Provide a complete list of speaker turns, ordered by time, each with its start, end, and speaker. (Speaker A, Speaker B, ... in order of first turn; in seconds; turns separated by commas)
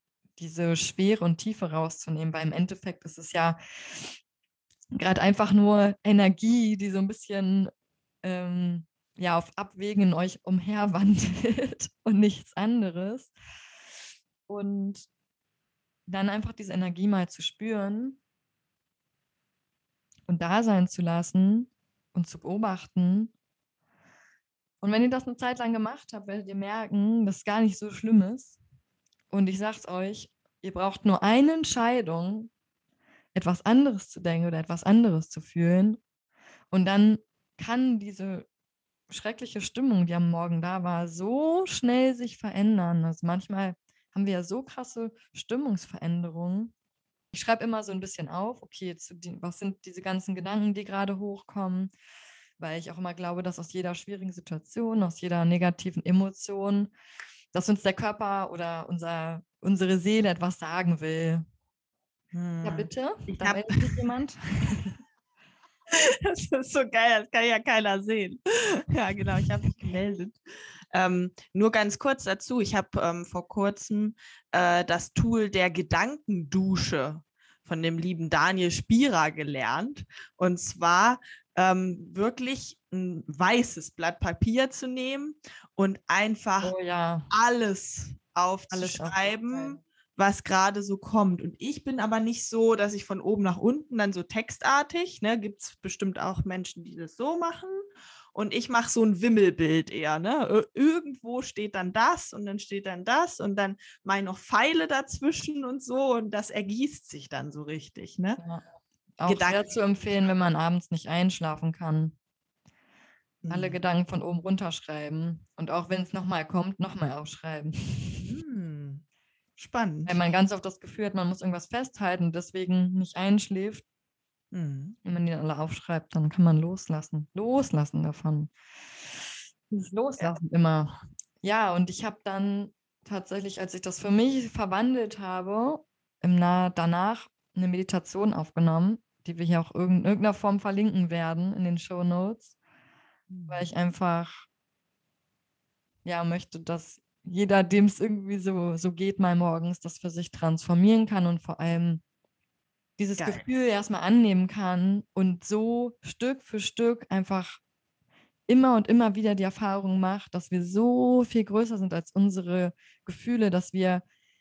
Speaker A: 0.4-4.2, Speaker A: 5.0-7.7, Speaker A: 8.2-13.3, Speaker A: 14.5-15.1, Speaker A: 16.1-18.2, Speaker A: 20.3-23.3, Speaker A: 24.8-28.6, Speaker A: 29.3-32.5, Speaker A: 33.3-36.0, Speaker A: 36.7-38.5, Speaker A: 39.1-46.7, Speaker A: 47.3-51.9, Speaker A: 52.6-56.9, Speaker A: 57.5-61.5, Speaker B: 62.3-64.0, Speaker A: 62.6-65.0, Speaker B: 65.9-70.4, Speaker B: 70.9-86.7, Speaker A: 86.6-87.3, Speaker B: 87.3-97.8, Speaker A: 88.7-89.8, Speaker B: 98.3-108.4, Speaker A: 108.4-108.6, Speaker A: 109.2-112.1, Speaker B: 109.2-109.7, Speaker B: 113.4-113.8, Speaker A: 113.5-118.3, Speaker B: 118.2-119.0, Speaker B: 119.6-120.2, Speaker A: 120.0-123.8, Speaker B: 124.5-125.0, Speaker A: 125.0-128.5, Speaker A: 129.7-142.5, Speaker B: 143.3-143.7, Speaker A: 143.5-144.4, Speaker A: 146.0-152.0, Speaker A: 153.0-157.6, Speaker B: 153.2-153.4, Speaker A: 158.5-164.0